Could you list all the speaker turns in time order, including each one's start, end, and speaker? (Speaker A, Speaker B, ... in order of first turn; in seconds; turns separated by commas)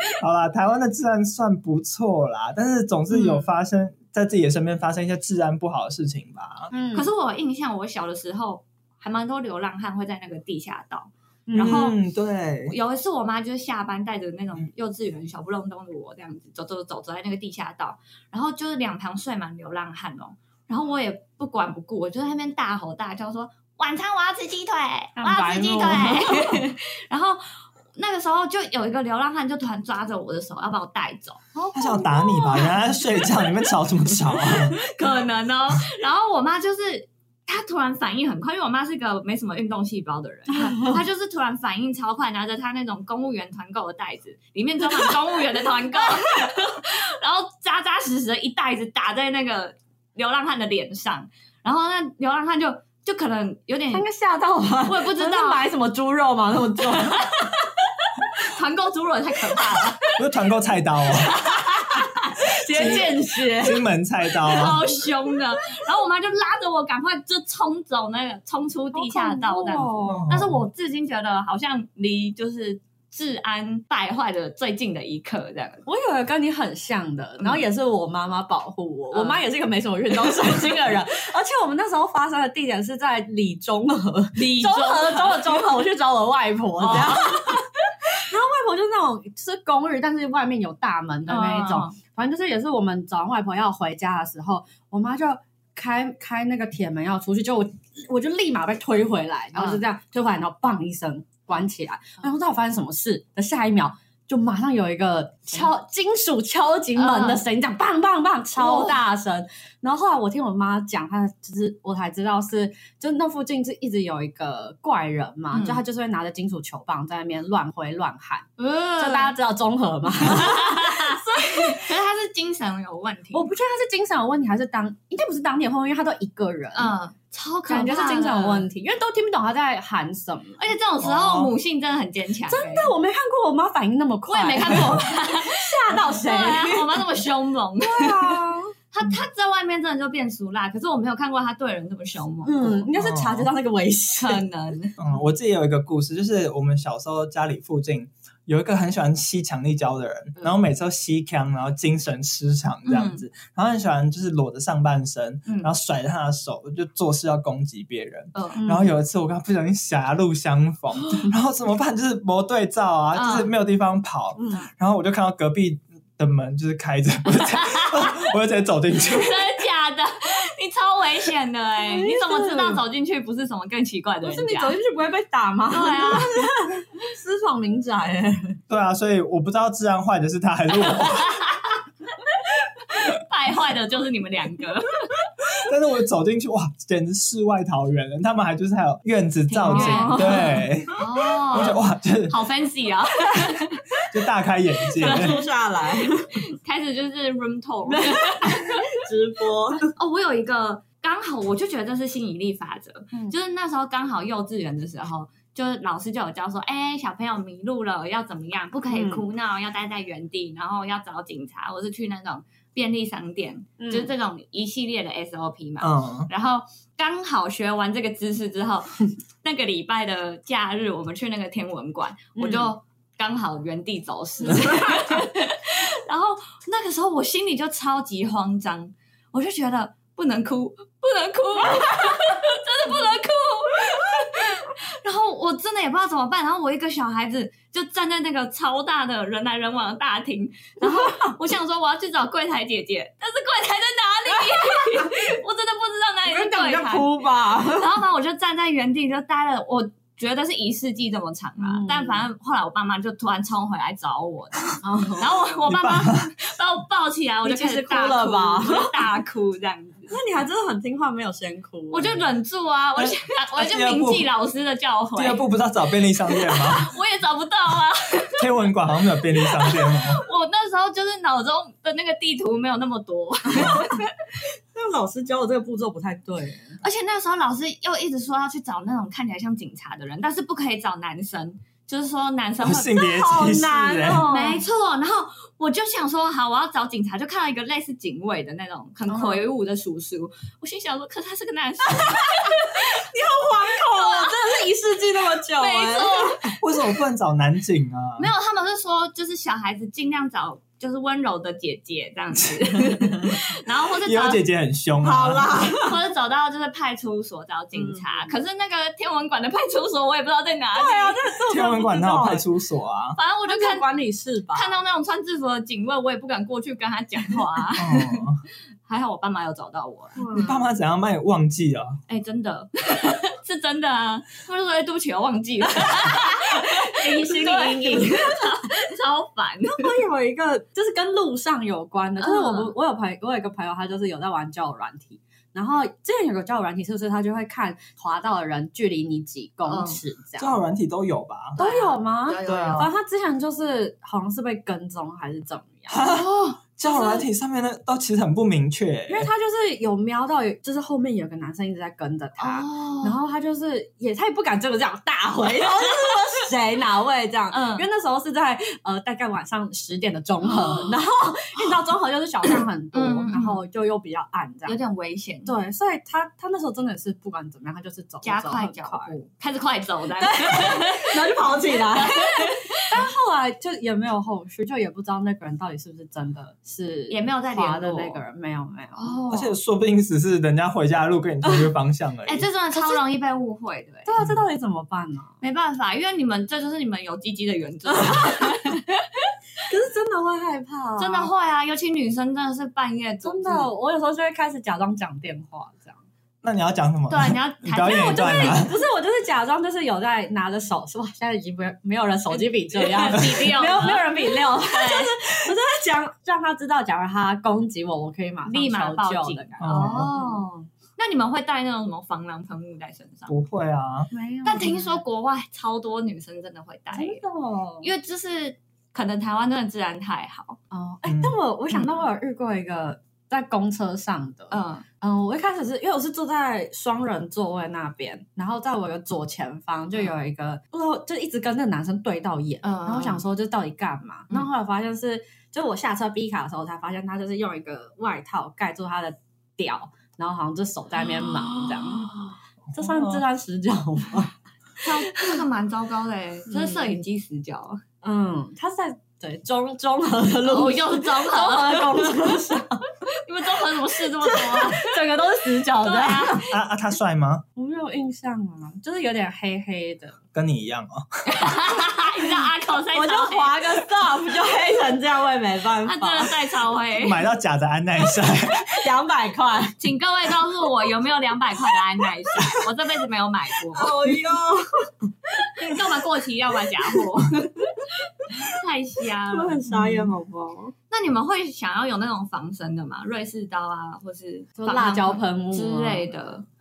Speaker A: 0.2-6.7, Speaker B: 6.7-7.1, Speaker C: 6.9-12.0, Speaker B: 11.5-11.9, Speaker A: 11.5-12.8, Speaker C: 12.7-32.7, Speaker B: 25.1-26.6, Speaker A: 31.7-34.8, Speaker B: 31.8-32.7, Speaker C: 34.5-54.0, Speaker B: 40.5-41.0, Speaker B: 53.9-57.3, Speaker C: 54.9-55.6, Speaker C: 56.8-60.2, Speaker A: 60.1-61.4, Speaker C: 61.0-63.4, Speaker B: 62.4-63.9, Speaker A: 62.8-63.0, Speaker A: 63.6-64.8, Speaker C: 64.4-75.8, Speaker B: 68.9-70.3, Speaker A: 70.1-70.6, Speaker B: 75.8-121.8, Speaker C: 77.4-77.6, Speaker C: 79.1-79.4, Speaker C: 84.3-85.7, Speaker C: 86.8-87.7, Speaker C: 91.3-92.0, Speaker C: 99.5-99.8, Speaker C: 107.0-107.4, Speaker C: 108.5-109.0, Speaker C: 115.5-115.8, Speaker C: 118.6-119.3, Speaker C: 120.2-123.5, Speaker B: 123.3-126.9, Speaker C: 126.7-128.7, Speaker B: 127.7-130.6, Speaker C: 130.6-132.9, Speaker A: 131.0-131.5, Speaker B: 132.5-137.0, Speaker C: 134.3-138.4, Speaker B: 137.8-138.7, Speaker C: 138.9-142.9, Speaker B: 142.4-144.4, Speaker A: 143.0-143.5, Speaker C: 144.2-145.0, Speaker A: 145.0-169.5, Speaker C: 152.8-153.2, Speaker C: 155.4-155.7, Speaker C: 158.3-158.6, Speaker B: 158.5-158.9, Speaker C: 163.1-163.5, Speaker B: 164.4-164.7, Speaker C: 167.4-168.3, Speaker C: 169.0-174.8, Speaker B: 171.8-172.8, Speaker B: 174.2-178.6, Speaker C: 175.7-176.5, Speaker A: 178.7-181.3, Speaker C: 180.8-181.8, Speaker C: 182.3-185.3, Speaker A: 185.5-192.4, Speaker C: 189.5-194.0, Speaker B: 189.7-190.7, Speaker A: 194.1-195.3, Speaker C: 194.9-195.4, Speaker B: 195.0-196.4, Speaker C: 196.5-198.9, Speaker B: 197.9-199.9, Speaker C: 199.9-260.1, Speaker B: 208.9-209.2, Speaker B: 213.8-214.1, Speaker A: 215.8-216.3, Speaker B: 222.3-222.7, Speaker B: 224.4-224.9, Speaker B: 240.8-241.3, Speaker B: 244.5-245.0, Speaker B: 246.2-248.0, Speaker B: 251.6-252.2, Speaker B: 254.8-255.4, Speaker A: 255.6-256.3, Speaker B: 257.4-259.1, Speaker B: 260.1-262.3, Speaker C: 261.9-265.4, Speaker A: 262.9-264.2, Speaker A: 265.1-266.9, Speaker C: 266.4-268.7, Speaker A: 268.4-270.2, Speaker C: 269.3-274.1, Speaker B: 273.5-274.0, Speaker A: 273.5-273.9, Speaker B: 274.7-276.8, Speaker C: 276.8-283.0, Speaker A: 282.6-284.3, Speaker B: 283.0-284.6, Speaker C: 284.3-293.1, Speaker B: 289.1-289.4, Speaker B: 291.9-296.6, Speaker C: 293.8-294.4, Speaker C: 295.5-296.6, Speaker A: 296.6-298.3, Speaker C: 298.2-304.4, Speaker B: 302.9-303.4, Speaker A: 304.0-305.5, Speaker B: 305.0-306.0, Speaker C: 305.6-311.2, Speaker B: 307.7-308.1, Speaker B: 310.7-312.4, Speaker A: 311.5-313.2, Speaker C: 313.1-313.9, Speaker B: 313.5-314.8, Speaker C: 314.5-318.3, Speaker A: 317.8-318.4, Speaker C: 318.9-320.3, Speaker B: 320.1-320.7, Speaker A: 320.4-322.0, Speaker C: 322.1-329.9, Speaker B: 326.0-328.7, Speaker B: 329.7-340.6, Speaker C: 332.2-332.7, Speaker C: 339.7-340.0, Speaker A: 340.4-341.6, Speaker C: 341.6-342.9, Speaker B: 341.6-346.0, Speaker A: 342.4-342.9, Speaker A: 345.9-349.3, Speaker C: 346.0-347.2, Speaker B: 349.1-364.8, Speaker C: 352.4-353.1, Speaker C: 357.5-357.9, Speaker C: 360.4-360.9, Speaker C: 362.9-363.6, Speaker C: 364.6-365.5, Speaker B: 365.4-369.1, Speaker C: 368.2-373.0, Speaker B: 370.2-379.2, Speaker C: 377.1-378.2, Speaker C: 378.9-379.6, Speaker A: 379.3-382.4, Speaker C: 382.2-384.1, Speaker B: 382.7-383.0, Speaker B: 384.1-385.3, Speaker C: 385.4-389.3, Speaker B: 387.9-388.6, Speaker B: 389.7-391.3, Speaker C: 391.0-393.7, Speaker B: 393.2-396.0, Speaker A: 396.4-398.7, Speaker C: 397.1-398.6, Speaker B: 397.9-410.7, Speaker C: 402.7-405.2, Speaker C: 408.4-413.3, Speaker A: 409.6-410.1, Speaker A: 413.3-414.1, Speaker B: 414.1-415.0, Speaker C: 414.4-417.2, Speaker B: 416.9-417.9, Speaker C: 417.8-420.6, Speaker B: 420.7-442.1, Speaker A: 421.1-421.4, Speaker C: 424.5-424.9, Speaker C: 432.6-433.2, Speaker C: 441.0-442.3, Speaker A: 442.7-443.2, Speaker B: 442.7-445.4, Speaker C: 444.8-447.8, Speaker B: 446.5-447.0, Speaker B: 448.0-452.9, Speaker C: 450.4-455.0, Speaker B: 454.2-456.4, Speaker C: 455.8-456.5, Speaker A: 456.5-457.4, Speaker B: 457.6-460.2, Speaker A: 460.3-461.0, Speaker C: 461.2-463.6, Speaker B: 462.3-466.3, Speaker C: 465.8-467.2, Speaker A: 466.9-468.9, Speaker B: 468.5-469.8, Speaker C: 469.8-473.9, Speaker B: 473.7-475.8, Speaker C: 475.6-479.6, Speaker B: 479.3-480.7, Speaker A: 479.7-480.1, Speaker C: 480.9-486.4, Speaker B: 484.6-486.1